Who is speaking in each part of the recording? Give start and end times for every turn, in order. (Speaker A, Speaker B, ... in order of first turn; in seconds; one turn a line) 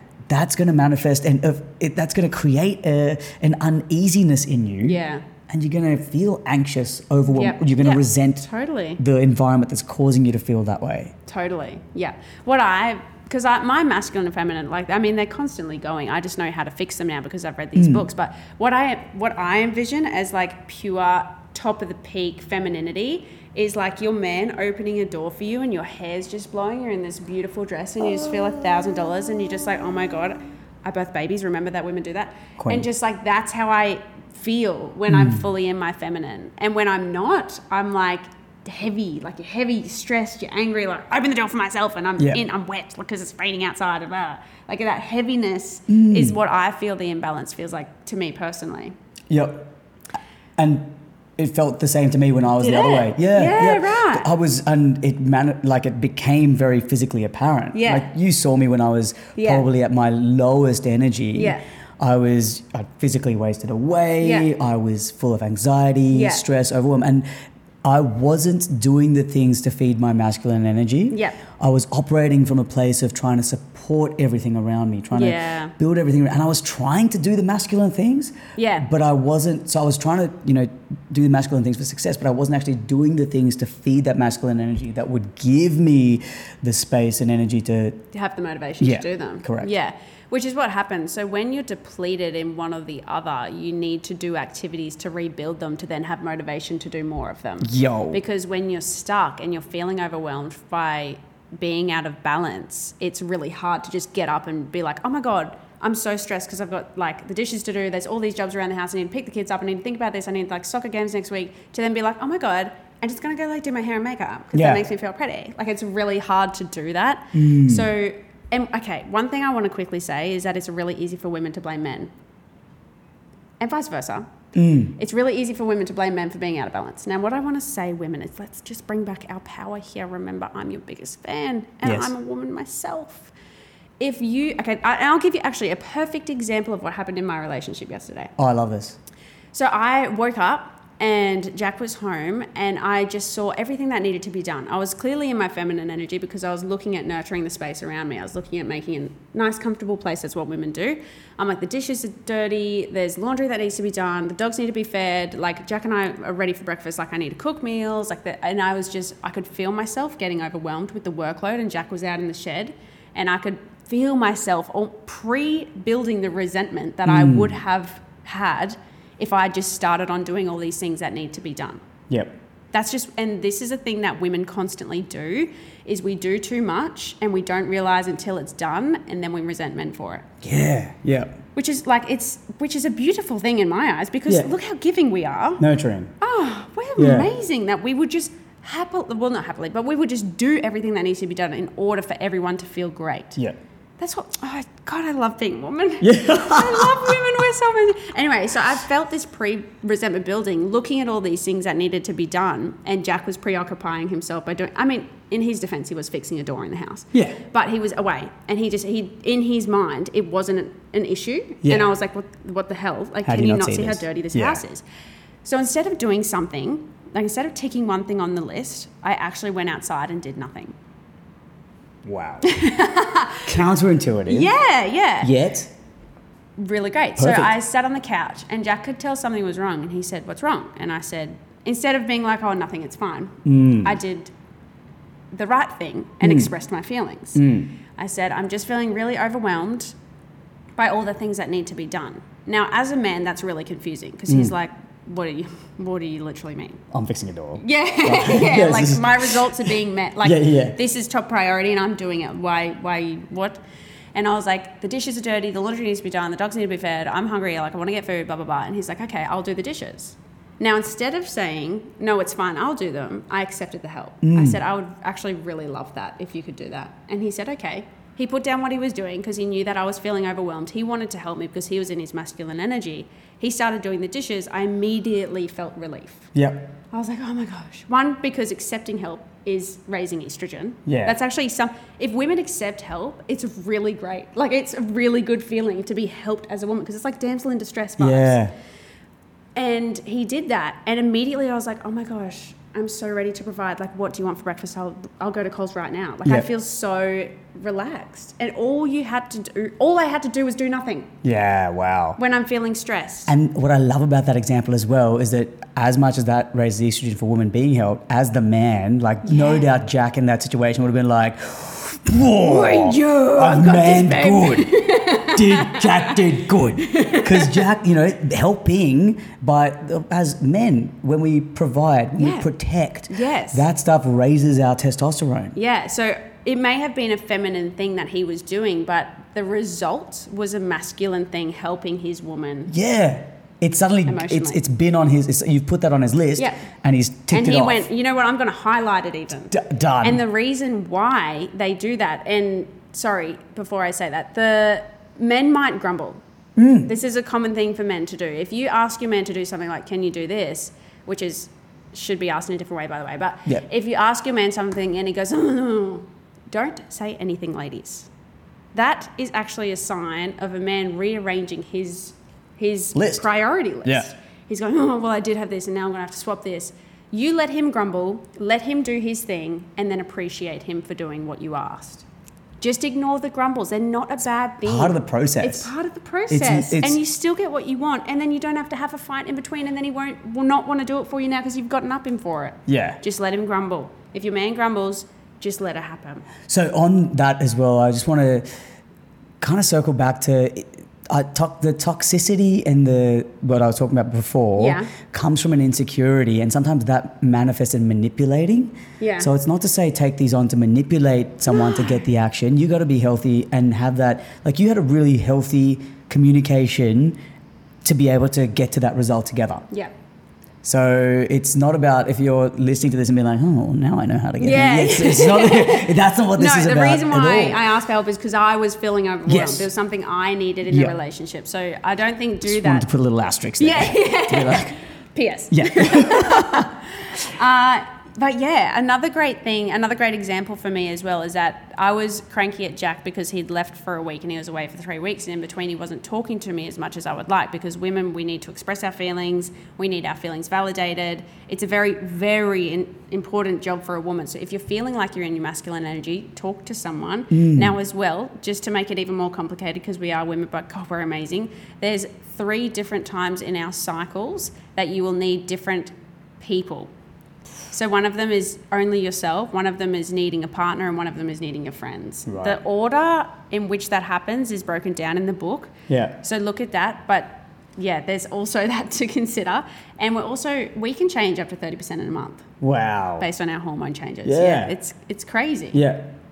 Speaker A: 0.3-11.1
Speaker B: 4.8-5.2
Speaker B: 7.3-9.0
Speaker B: 11.3-48.9
Speaker A: 17.8-18.1
Speaker A: 32.6-32.9
Speaker A: 35.1-35.4
Speaker A: 45.9-46.4
Speaker A: 49.3-49.7
Speaker A: 50.6-67.2
Speaker B: 52.6-54.3
Speaker B: 57.7-58.1
Speaker B: 59.4-59.6
Speaker B: 61.3-61.6
Speaker B: 64.2-64.5
Speaker B: 66.1-66.4
Speaker A: 67.8-88.0
Speaker B: 71.1-71.4
Speaker B: 75.1-75.7
Speaker B: 78.5-78.9
Speaker B: 88.1-122.1
Speaker A: 88.8-89.7
Speaker A: 97.6-98.2
Speaker A: 114.5-114.8
Speaker A: 117.3-117.9
Speaker B: 123.6-124.3
Speaker A: 124.5-125.0
Speaker B: 124.9-133.3
Speaker A: 131.8-132.1
Speaker B: 134.0-138.3
Speaker A: 138.4-139.0
Speaker B: 139.5-171.8
Speaker A: 167.0-167.5
Speaker A: 172.1-172.3
Speaker B: 172.7-180.3
Speaker A: 180.4-181.4
Speaker B: 181.5-185.6
Speaker A: 185.6-186.1
Speaker B: 186.2-193.4
Speaker A: 187.0-187.3
Speaker B: 194.0-214.8
Speaker A: 196.0-197.3
Speaker A: 207.1-207.4
Speaker A: 211.6-211.9
Speaker A: 213.2-214.6
Speaker B: 215.4-220.7
Speaker A: 222.0-222.5
Speaker B: 222.4-223.5
Speaker A: 223.4-224.5
Speaker B: 224.3-225.3
Speaker A: 225.2-225.7
Speaker B: 226.6-234.3
Speaker A: 227.2-227.5
Speaker A: 233.4-234.0
Speaker B: 235.3-237.4
Speaker A: 236.2-236.5
Speaker A: 237.3-237.7
Speaker B: 237.9-239.9
Speaker B: 240.8-246.8
Speaker A: 244.3-244.5
Speaker A: 246.9-250.8
Speaker B: 247.6-253.6
Speaker B: 254.1-276.3
Speaker A: 264.2-264.6
Speaker A: 276.3-276.7
Speaker B: 276.9-288.4
Speaker A: 280.9-281.1
Speaker A: 288.0-288.5
Speaker B: 289.5-301.1
Speaker A: 301.2-302.2
Speaker B: 302.2-303.3
Speaker A: 303.3-325.6
Speaker B: 309.2-309.6
Speaker B: 312.4-316.2
Speaker B: 316.8-317.6
Speaker B: 322.2-322.5
Speaker B: 323.1-323.6
Speaker B: 325.5-332.7
Speaker A: 332.7-337.9
Speaker B: 334.1-334.6
Speaker B: 336.4-336.6
Speaker B: 337.3-346.2
Speaker A: 339.5-340.2
Speaker A: 346.6-346.9
Speaker B: 346.8-358.1
Speaker B: 358.7-372.1
Speaker A: 362.9-363.2
Speaker A: 363.8-364.1
Speaker B: 372.6-386.2
Speaker A: 374.6-375.7
Speaker A: 376.3-377.0
Speaker A: 382.7-383.0
Speaker A: 386.5-388.4
Speaker A: 389.4-407.2
Speaker B: 394.6-394.9
Speaker B: 399.0-399.3
Speaker A: 407.8-409.7
Speaker A: 410.6-417.7
Speaker B: 414.4-422.9
Speaker A: 419.3-419.7
Speaker A: 420.7-420.9
Speaker A: 422.4-424.7
Speaker B: 423.6-456.9
Speaker A: 425.5-426.7
Speaker A: 447.3-447.7
Speaker B: 457.7-472.4
Speaker A: 462.3-462.6
Speaker A: 465.9-466.2
Speaker A: 472.6-473.3
Speaker B: 473.2-475.8
Speaker A: 474.2-474.7
Speaker A: 475.7-476.2